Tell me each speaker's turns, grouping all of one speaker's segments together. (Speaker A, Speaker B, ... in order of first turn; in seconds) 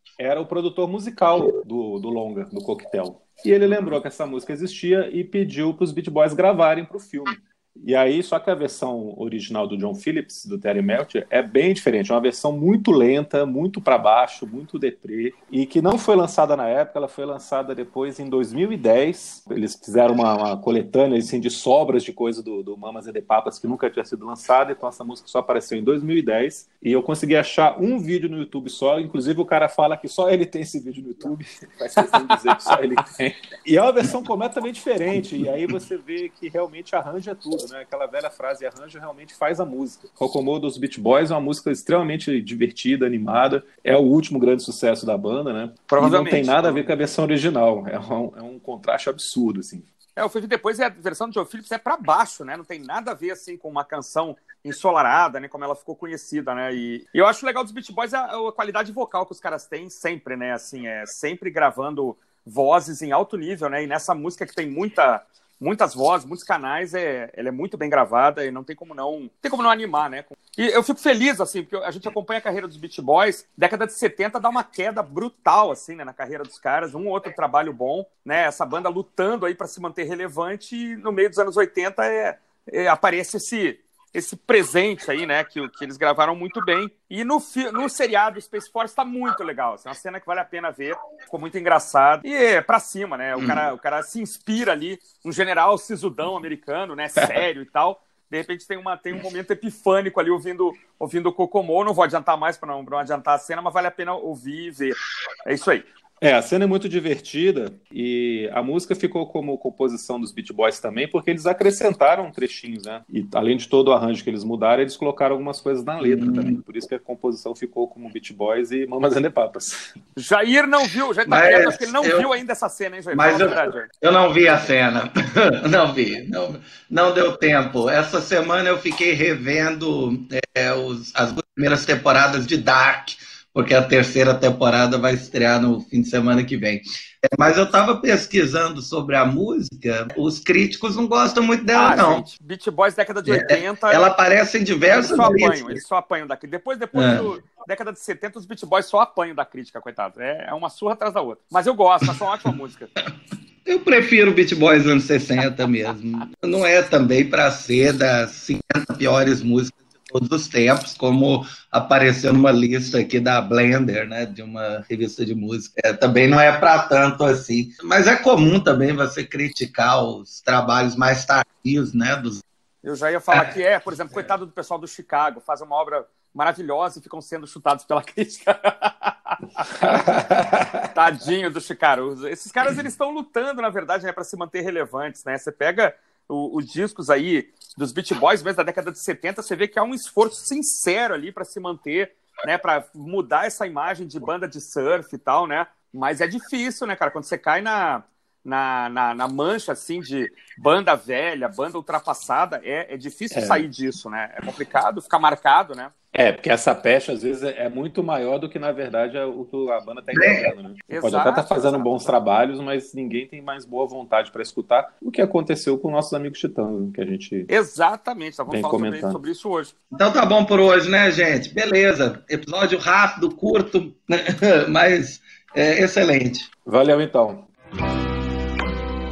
Speaker A: 0.2-49.9, 97.2-97.4, 106.2-119.7, 179.8-180.8, 203.3-203.7, 206.1-217.5, 218.5-219.2, 226.7-227.5
Speaker B: 32.3-32.8, 45.9-46.9, 50.2-105.8, 120.2-123.9, 141.7-144.1, 144.9-152.9, 172.8-180.0, 180.9-205.9, 210.9-212.2, 217.5-219.7
Speaker C: 93.4-93.7, 116.0-116.6, 121.3-122.3, 123.1-142.3, 143.3-145.8, 146.9-147.3, 153.7-172.4, 210.1-210.5, 219.9-226.5